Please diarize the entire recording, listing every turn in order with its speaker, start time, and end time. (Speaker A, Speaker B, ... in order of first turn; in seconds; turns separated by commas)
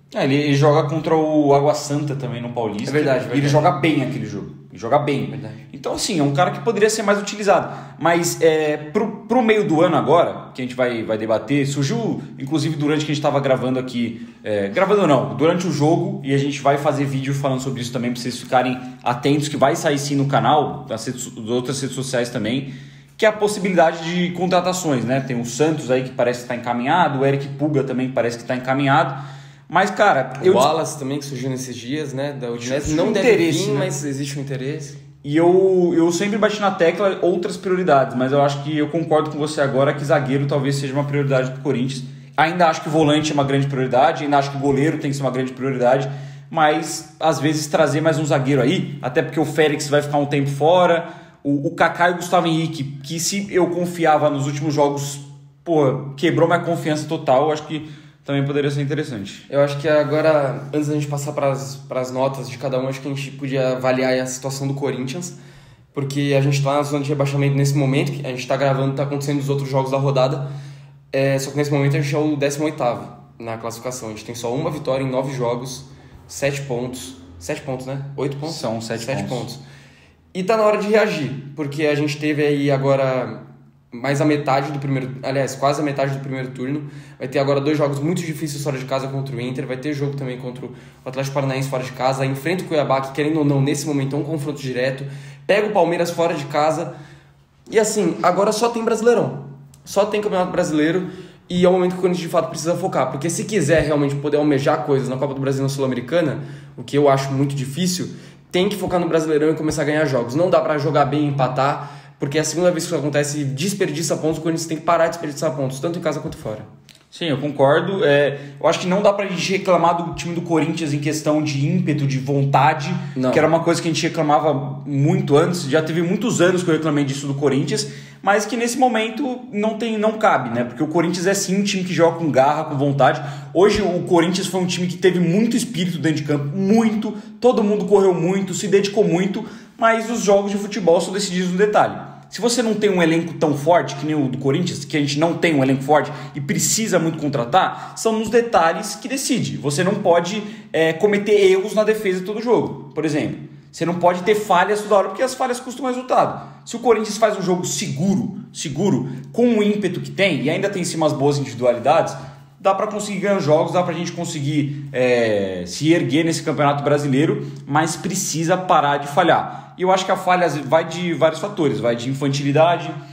Speaker A: 0.1-30.7, Speaker B: 2.9-3.8, Speaker B: 5.3-5.6, Speaker B: 30.4-35.0, Speaker A: 32.6-33.9, Speaker A: 35.2-59.5, Speaker B: 59.5-65.4, Speaker B: 65.9-70.5, Speaker B: 71.1-79.6, Speaker A: 78.5-79.5, Speaker B: 80.3-96.9, Speaker B: 97.7-116.7, Speaker A: 117.1-173.0, Speaker B: 123.2-123.5